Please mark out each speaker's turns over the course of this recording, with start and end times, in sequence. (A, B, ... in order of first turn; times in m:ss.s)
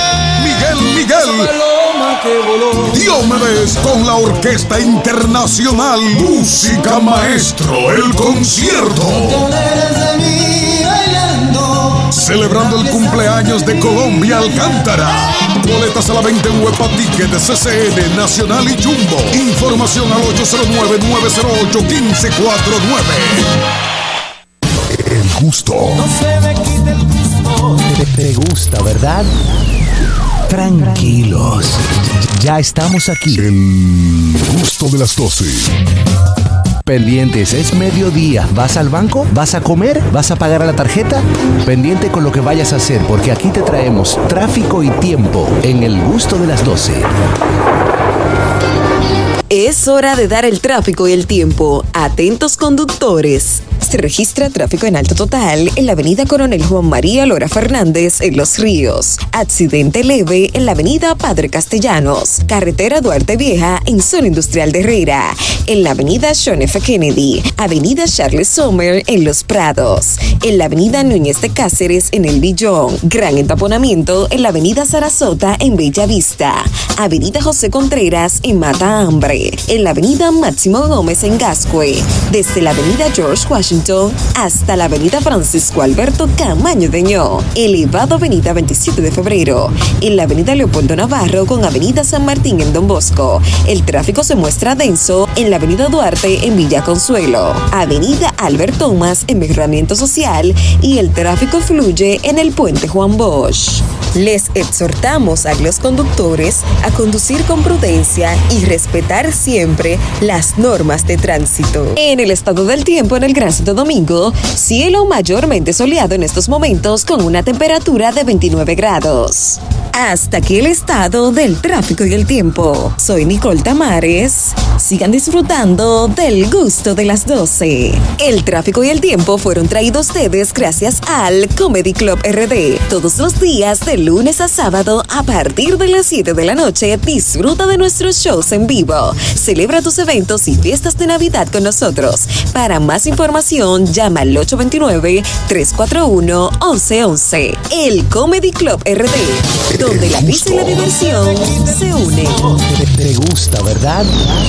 0:00.4-0:01.6 A
0:02.8-0:09.5 A
0:12.0-0:23.5 A
0:24.9-0:26.1 B
0:27.8-0:29.3 C
0:30.5-0:33.5 C
0:33.4-0:35.7 B
0:36.9-0:47.1 C
0:49.5-2:32.5 D
2:30.1-2:30.8 C
2:32.6-2:34.1 C